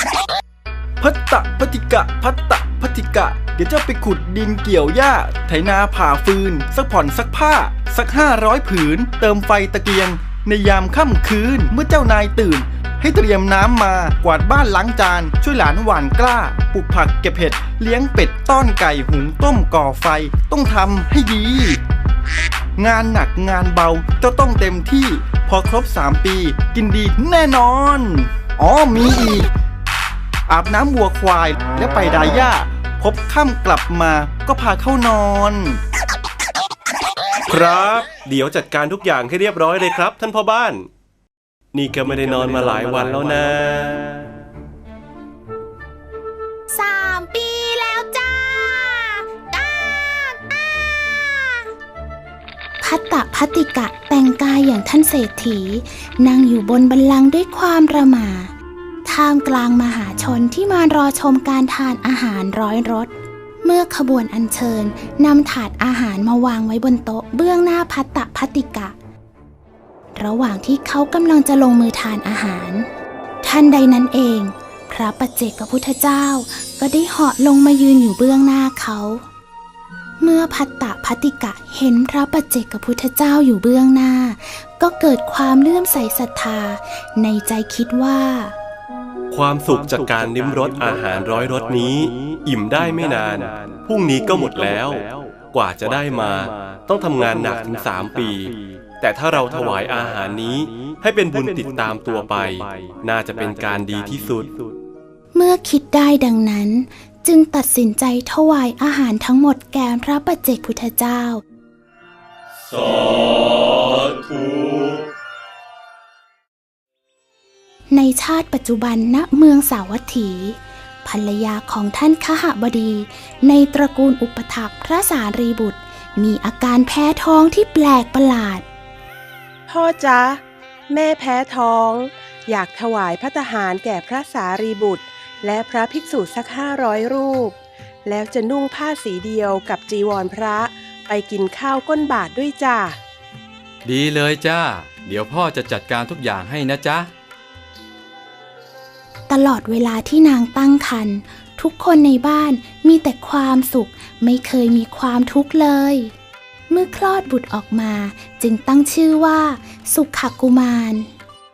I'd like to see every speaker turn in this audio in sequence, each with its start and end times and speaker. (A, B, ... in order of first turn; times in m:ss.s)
0:01.0-0:21.8 A
0:22.8-0:29.5 A
0:30.5-0:35.8 A
0:37.5-0:40.9 B
0:41.7-0:44.2 B
0:46.7-0:51.6 C
0:52.8-0:58.5 C
0:59.0-1:03.1 C
1:03.6-1:09.0 C
1:10.2-1:12.9 C
1:13.4-1:19.2 C
1:20.2-1:28.5 C
1:29.3-1:44.5 B
1:45.3-1:51.4 C
1:52.9-1:54.9 B
1:57.9-2:08.6 C
2:09.7-2:23.0 D
2:23.8-2:27.1 E
2:29.3-2:36.1 C
2:36.7-2:41.1 C